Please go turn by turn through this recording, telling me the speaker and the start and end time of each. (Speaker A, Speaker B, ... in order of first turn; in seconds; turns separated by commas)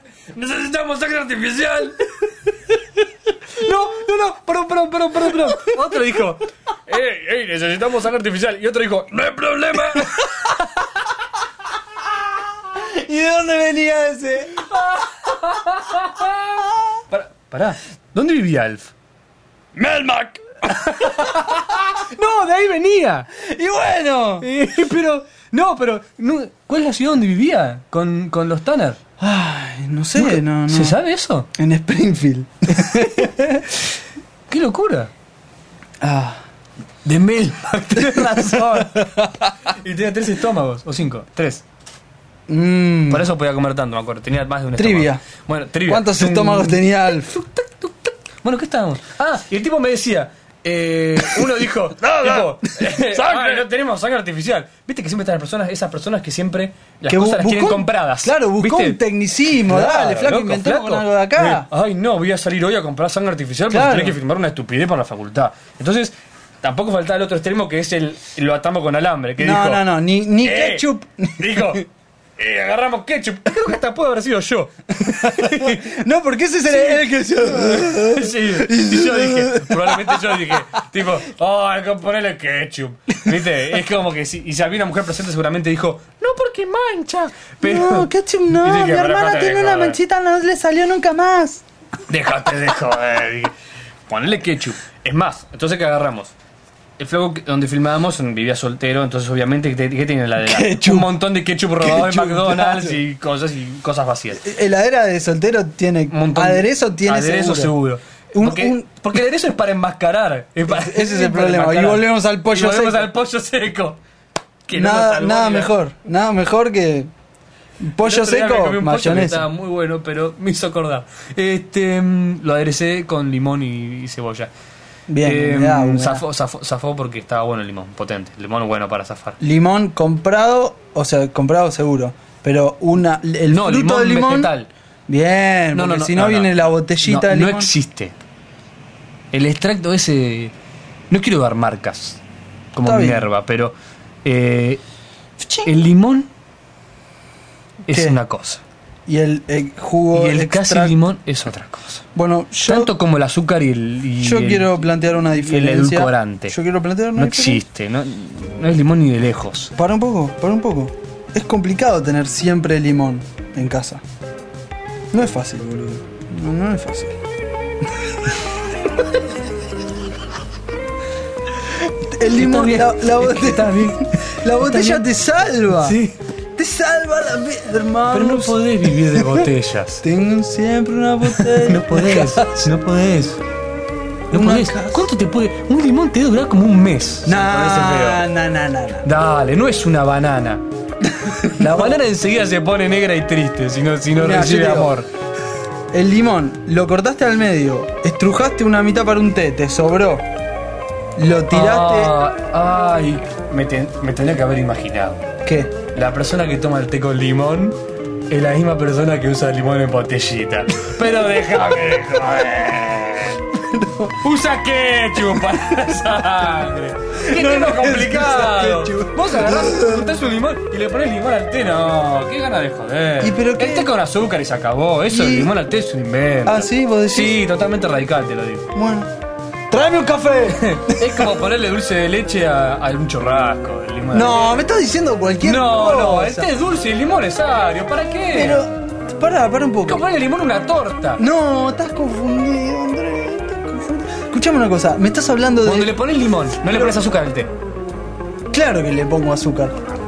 Speaker A: 0.3-10.6, Speaker B: 5.3-5.8, Speaker B: 9.9-10.6, Speaker B: 12.5-15.3, Speaker A: 15.0-16.4, Speaker B: 15.9-16.7, Speaker A: 17.1-18.9, Speaker B: 19.7-21.6, Speaker A: 20.7-23.3, Speaker B: 23.3-24.4, Speaker A: 24.4-29.0, Speaker B: 29.2-31.0, Speaker A: 30.1-31.5, Speaker B: 31.5-33.8, Speaker A: 34.5-35.1, Speaker B: 36.0-36.4, Speaker A: 37.0-41.6, Speaker B: 38.1-39.3, Speaker B: 42.5-43.2, Speaker A: 43.1-59.0, Speaker B: 44.8-45.2, Speaker B: 45.9-47.4, Speaker B: 51.2-53.6, Speaker B: 57.1-61.7, Speaker A: 59.5-69.8, Speaker B: 63.7-64.2, Speaker B: 69.4-71.8, Speaker A: 70.4-71.8, Speaker A: 72.4-75.8, Speaker B: 75.0-80.6, Speaker A: 77.6-90.0, Speaker B: 87.6-91.6, Speaker A: 92.1-93.5, Speaker A: 94.1-96.3, Speaker A: 97.0-104.5, Speaker B: 100.4-101.2, Speaker B: 101.8-103.0, Speaker B: 104.4-107.7, Speaker A: 106.1-114.0, Speaker B: 108.3-108.8, Speaker B: 110.7-113.1, Speaker A: 114.7-115.8, Speaker B: 114.7-117.1, Speaker B: 117.8-119.5, Speaker A: 118.0-124.5, Speaker B: 125.1-126.2, Speaker A: 125.2-129.4, Speaker B: 129.4-134.5, Speaker A: 133.5-134.7, Speaker B: 135.1-137.7, Speaker A: 135.7-138.1, Speaker A: 139.3-140.5, Speaker A: 141.1-142.2, Speaker A: 142.7-144.8, Speaker B: 142.8-143.3, Speaker B: 145.4-145.7, Speaker A: 145.6-146.3, Speaker A: 147.9-148.6, Speaker B: 147.9-148.2, Speaker B: 149.1-151.0, Speaker A: 150.1-152.0, Speaker B: 152.1-152.9, Speaker A: 152.6-154.7, Speaker B: 154.2-157.6, Speaker A: 155.3-156.6, Speaker A: 157.2-159.7, Speaker B: 159.8-164.0, Speaker B: 165.1-167.2, Speaker B: 168.0-168.4, Speaker B: 172.0-176.0, Speaker A: 172.3-175.1, Speaker A: 175.7-176.2, Speaker B: 176.6-179.5, Speaker A: 178.1-180.0, Speaker B: 180.0-182.7, Speaker A: 181.3-183.4, Speaker B: 184.3-185.1, Speaker A: 184.3-188.2, Speaker B: 187.2-189.1, Speaker A: 189.0-190.6, Speaker B: 191.2-192.0, Speaker A: 191.4-195.1, Speaker B: 194.1-194.9, Speaker B: 195.9-200.3, Speaker B: 201.2-202.1, Speaker A: 201.5-205.3, Speaker B: 205.4-205.7, Speaker A: 205.9-213.4, Speaker B: 213.5-214.2, Speaker A: 214.2-228.7, Speaker B: 217.2-220.1, Speaker B: 223.2-223.9, Speaker B: 225.1-225.5, Speaker B: 226.4-227.4, Speaker B: 228.7-229.1, Speaker B: 229.7-231.3, Speaker A: 230.5-234.5, Speaker B: 234.1-236.5, Speaker A: 235.4-238.6, Speaker B: 238.3-240.1, Speaker A: 239.8-241.2, Speaker B: 241.2-245.9, Speaker A: 245.6-247.5, Speaker B: 248.5-249.9